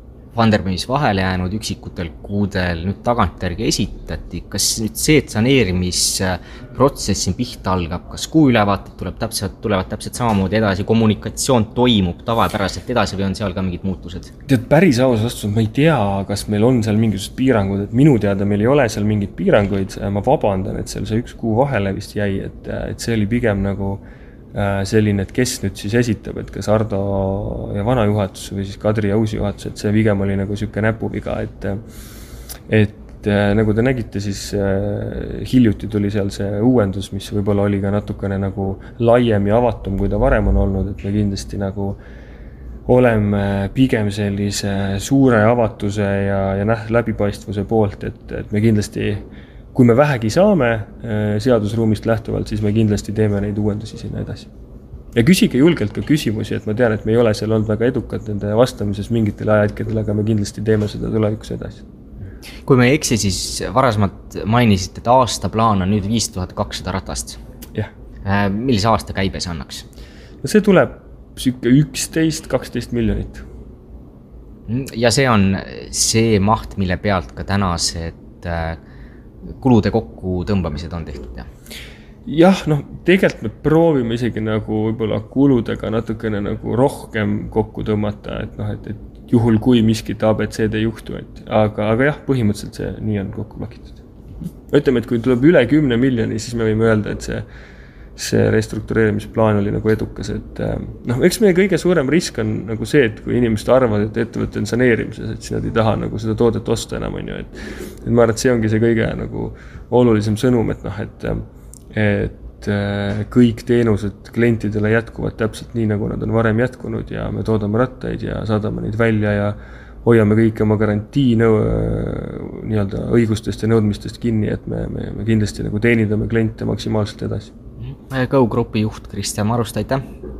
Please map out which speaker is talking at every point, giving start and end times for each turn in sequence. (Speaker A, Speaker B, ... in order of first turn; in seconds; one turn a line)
Speaker A: 0.3-14.3
Speaker B: 14.4-24.0
Speaker B: 24.5-31.8
Speaker B: 32.7-42.0
Speaker B: 42.9-54.5
Speaker B: 55.1-61.8
Speaker A: 62.6-67.4
Speaker A: 68.2-69.8
Speaker B: 70.4-73.4
Speaker A: 74.7-78.8
Speaker A: 79.6-81.5
Speaker B: 82.2-94.0
Speaker B: 94.7-97.4
Speaker B: 98.2-111.4
Speaker B: 111.9-127.5
Speaker A: 127.9-130.0